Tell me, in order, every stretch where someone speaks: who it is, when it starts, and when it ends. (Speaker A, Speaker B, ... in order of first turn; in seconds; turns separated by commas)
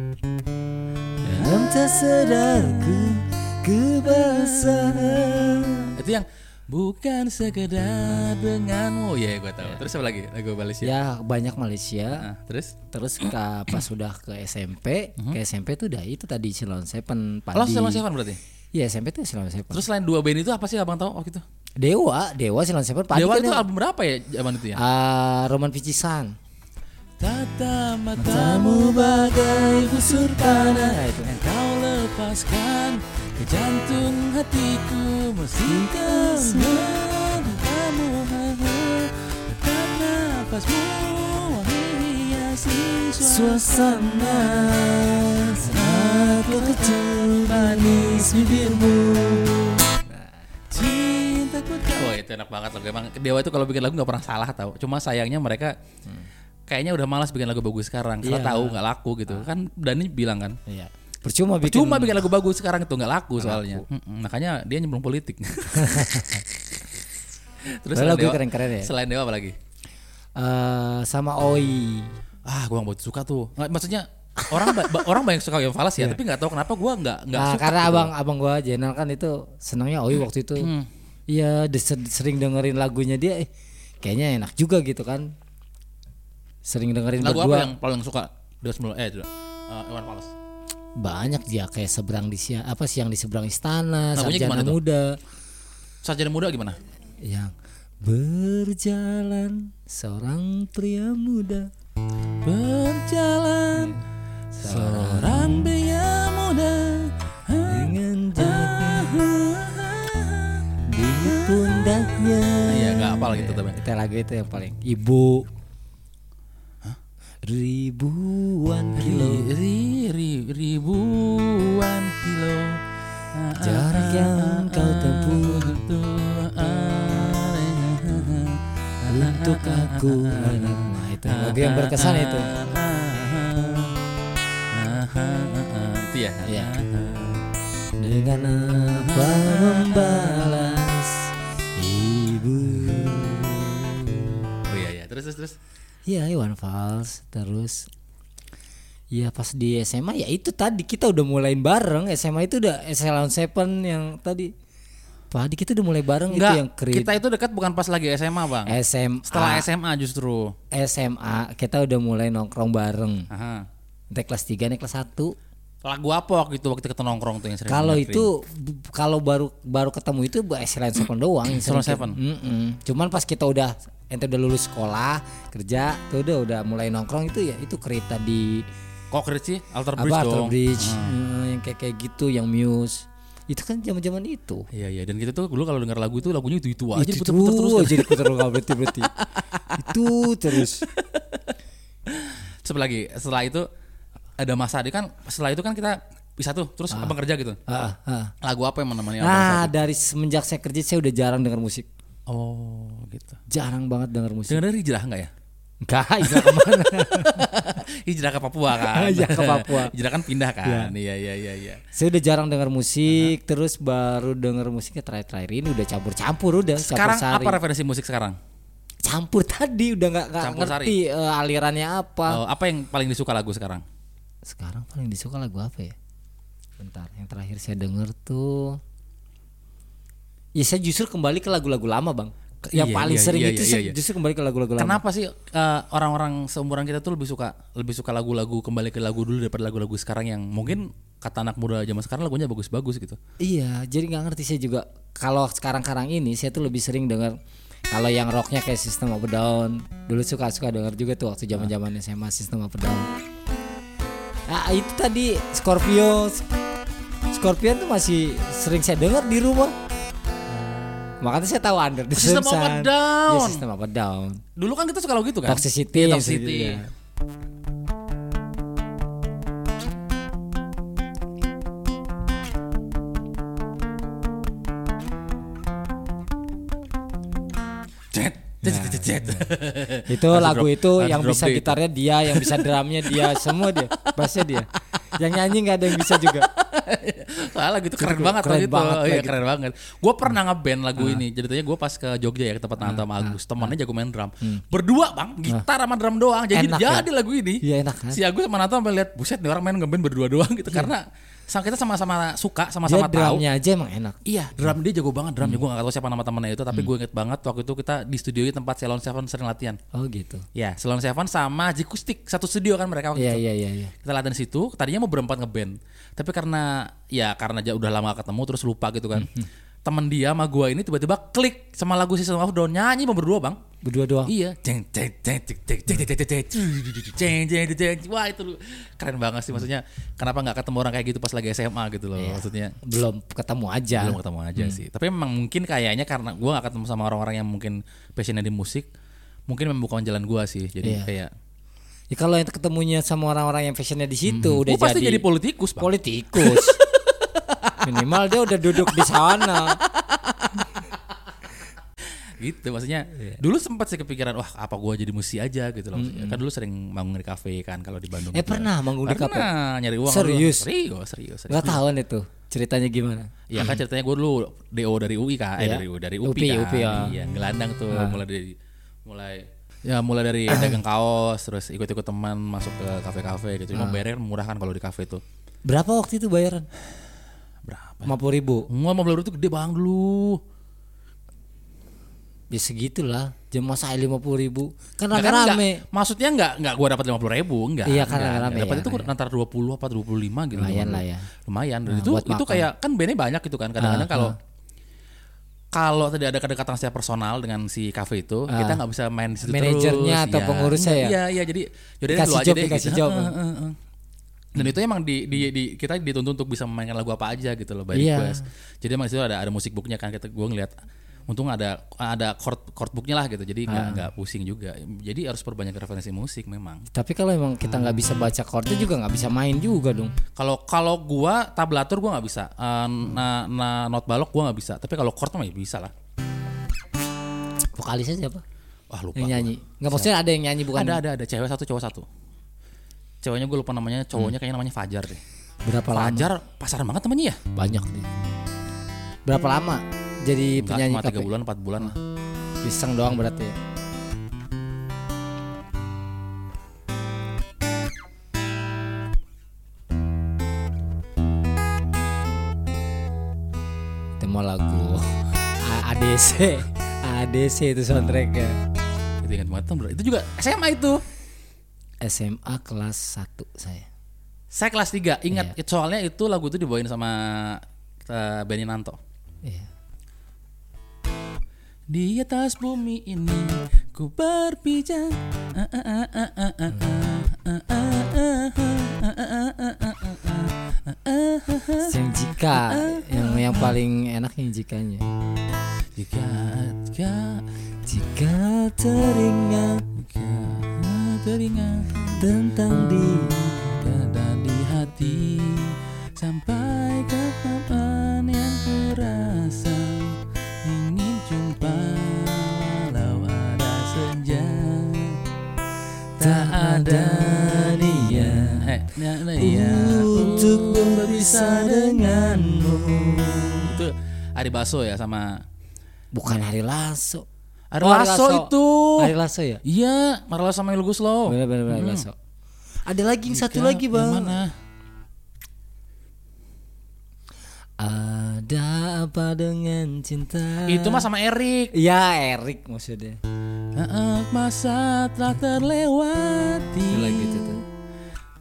Speaker A: 1.2-5.9, Speaker B: 1.3-3.2, Speaker B: 4.1-5.2, Speaker B: 5.9-10.9, Speaker A: 10.8-12.3, Speaker B: 12.2-12.8, Speaker A: 12.9-18.0, Speaker B: 17.5-18.4, Speaker A: 18.7-19.9, Speaker B: 19.7-21.4, Speaker A: 21.8-23.6, Speaker B: 23.1-24.8, Speaker A: 24.7-26.3, Speaker B: 27.2-44.7, Speaker A: 28.2-31.3, Speaker A: 35.6-37.0, Speaker A: 43.2-49.1, Speaker B: 45.6-49.9, Speaker B: 50.7-55.7, Speaker B: 56.7-60.6, Speaker A: 58.2-58.8, Speaker A: 60.7-62.3, Speaker B: 61.6-66.4, Speaker A: 63.4-63.8, Speaker A: 65.7-66.4, Speaker B: 67.7-69.5, Speaker A: 67.9-68.9, Speaker A: 70.4-72.1, Speaker B: 72.5-78.1, Speaker A: 74.4-75.0, Speaker A: 77.3-80.7, Speaker B: 80.6-80.9, Speaker A: 81.3-83.5, Speaker A: 84.0-85.3, Speaker A: 86.7-87.7, Speaker B: 87.2-90.3, Speaker A: 91.0-95.2, Speaker B: 94.2-94.8, Speaker B: 96.0-96.8, Speaker A: 97.2-101.7, Speaker B: 102.4-104.0, Speaker A: 104.5-105.7, Speaker B: 104.6-110.7, Speaker A: 107.7-109.3, Speaker A: 110.9-115.5, Speaker B: 111.2-113.8, Speaker A: 117.4-119.5, Speaker B: 119.0-122.8, Speaker B: 123.3-133.9, Speaker A: 123.6-125.8, Speaker A: 129.1-132.5, Speaker B: 134.7-137.4, Speaker A: 136.4-136.7, Speaker A: 138.0-144.4, Speaker B: 139.0-140.6, Speaker B: 144.7-145.6, Speaker A: 146.1-147.9, Speaker A: 149.1-154.5, Speaker A: 155.3-157.1, Speaker B: 156.3-158.8, Speaker A: 158.7-159.7, Speaker B: 159.3-160.5, Speaker A: 160.7-163.3, Speaker B: 163.3-163.7, Speaker A: 164.1-165.3, Speaker B: 165.8-168.3, Speaker A: 167.7-178.6, Speaker B: 171.5-172.2, Speaker B: 179.1-181.1, Speaker A: 180.0-184.7, Speaker B: 184.7-191.5, Speaker A: 186.9-189.1, Speaker A: 189.7-190.9, Speaker B: 192.1-193.7, Speaker B: 194.4-197.6, Speaker A: 197.7-198.3, Speaker B: 198.4-199.7, Speaker A: 199.2-201.9, Speaker B: 202.3-203.4, Speaker A: 203.5-204.6, Speaker B: 204.5-205.3, Speaker A: 205.8-207.5, Speaker B: 206.2-211.8, Speaker A: 208.7-209.9, Speaker A: 210.6-210.9, Speaker A: 211.9-217.6, Speaker B: 216.8-218.4, Speaker A: 219.0-222.4, Speaker B: 220.4-220.9, Speaker B: 222.3-223.8, Speaker A: 224.4-225.9, Speaker A: 226.8-228.8, Speaker A: 230.6-235.0, Speaker B: 232.6-233.9, Speaker B: 234.8-243.2, Speaker A: 243.4-247.3, Speaker A: 247.9-253.1, Speaker A: 254.5-256.4, Speaker A: 257.3-259.7, Speaker B: 260.5-261.1, Speaker A: 261.2-264.4, Speaker B: 262.1-263.6, Speaker B: 264.6-266.8, Speaker A: 265.4-266.9, Speaker B: 278.1-284.8, Speaker A: 278.6-279.5, Speaker A: 280.1-286.5, Speaker B: 285.9-303.4, Speaker A: 288.0-289.4, Speaker A: 291.0-291.2, Speaker A: 292.8-293.7, Speaker A: 296.5-297.1, Speaker A: 297.6-298.2, Speaker A: 302.9-304.2, Speaker B: 304.2-309.8, Speaker A: 309.9-310.4, Speaker B: 310.5-313.4, Speaker A: 313.1-313.9, Speaker B: 314.0-319.3, Speaker A: 319.1-319.5, Speaker B: 319.9-323.6, Speaker A: 323.8-324.3, Speaker B: 324.2-332.8, Speaker A: 332.2-334.8, Speaker B: 333.9-338.9, Speaker B: 339.5-341.3, Speaker A: 340.8-341.1, Speaker A: 342.1-345.2, Speaker B: 344.2-351.0, Speaker A: 345.8-346.8, Speaker A: 347.8-349.8, Speaker B: 352.4-361.8, Speaker A: 355.9-356.4, Speaker A: 358.3-359.5, Speaker A: 360.1-360.7, Speaker A: 361.5-363.8, Speaker B: 363.5-375.2, Speaker A: 365.6-367.1, Speaker A: 367.9-368.2, Speaker A: 370.5-370.8, Speaker A: 373.7-374.0, Speaker A: 375.7-376.7, Speaker B: 377.6-378.1, Speaker A: 378.0-378.7, Speaker B: 378.7-380.4, Speaker A: 382.5-385.8, Speaker B: 385.1-394.3, Speaker A: 387.9-389.1, Speaker A: 390.5-391.3, Speaker A: 391.9-392.7, Speaker A: 393.8-394.4, Speaker B: 395.7-403.8, Speaker A: 398.5-398.8, Speaker A: 399.4-401.1, Speaker A: 402.1-403.3, Speaker B: 404.5-410.7, Speaker A: 407.9-408.4, Speaker B: 411.3-416.9, Speaker A: 413.7-414.0, Speaker A: 416.9-420.1, Speaker B: 420.4-425.9, Speaker A: 427.7-428.4, Speaker B: 428.9-430.1, Speaker A: 429.1-431.0, Speaker B: 430.7-432.1, Speaker B: 433.2-435.2, Speaker A: 435.6-436.3, Speaker B: 435.9-437.4, Speaker A: 437.5-438.1, Speaker A: 439.3-441.3, Speaker B: 440.6-441.9, Speaker A: 442.6-443.6, Speaker A: 454.2-458.6, Speaker B: 459.2-461.0, Speaker A: 462.0-463.9, Speaker B: 464.5-469.0, Speaker A: 469.4-469.7, Speaker B: 471.9-483.7, Speaker A: 481.8-485.1, Speaker B: 485.9-487.4, Speaker A: 487.9-489.8, Speaker B: 489.9-492.3, Speaker A: 492.1-493.4, Speaker B: 492.9-505.2, Speaker B: 506.2-512.7, Speaker A: 506.2-508.7, Speaker A: 509.4-513.7, Speaker B: 513.6-515.4, Speaker A: 516.1-517.2, Speaker B: 517.7-522.1, Speaker A: 517.8-519.6, Speaker A: 521.3-522.1, Speaker A: 522.9-524.4, Speaker B: 523.3-524.5, Speaker A: 527.8-531.1, Speaker B: 530.6-531.7, Speaker A: 531.7-533.2, Speaker B: 533.8-537.6, Speaker A: 536.9-537.6